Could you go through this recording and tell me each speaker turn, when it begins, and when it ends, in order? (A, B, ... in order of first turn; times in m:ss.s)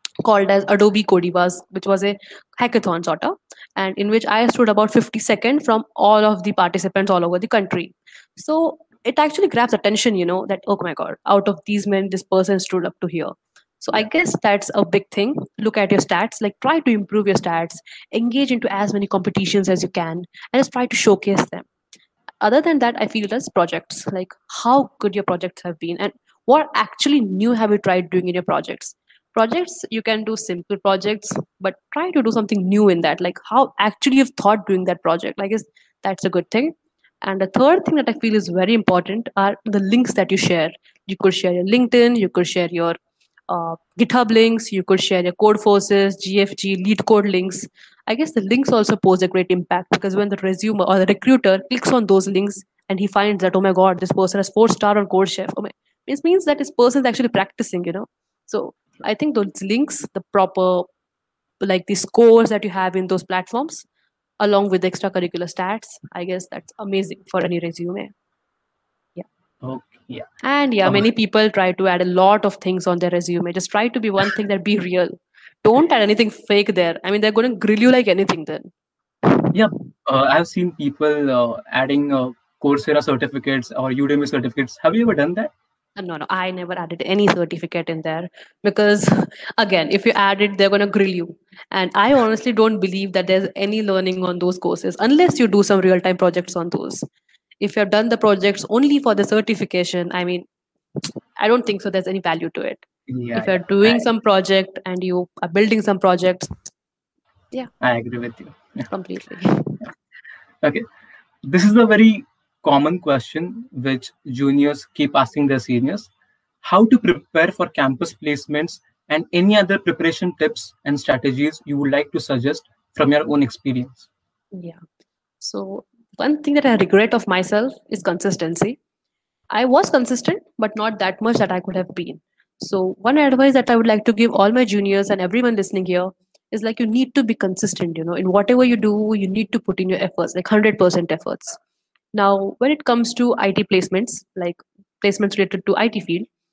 0:00.2-0:21.7 A
0:22.4-0:43.0 A
0:43.5-1:00.9 A
1:01.6-1:03.9 A
1:04.4-1:08.1 A
1:09.6-1:10.3 B
1:10.4-1:18.7 A
1:19.5-1:25.5 B
1:26.0-1:37.1 A
1:37.6-1:40.5 A
1:41.0-1:42.8 A
1:43.1-1:44.1 B
1:43.3-1:46.7 A
1:47.8-1:48.9 B
1:48.9-1:49.8 A
1:51.4-1:56.1 B
1:56.6-2:04.1 B
2:04.5-2:04.8 A
2:05.4-2:08.8 A
2:09.5-2:21.6 A
2:22.1-2:26.3 A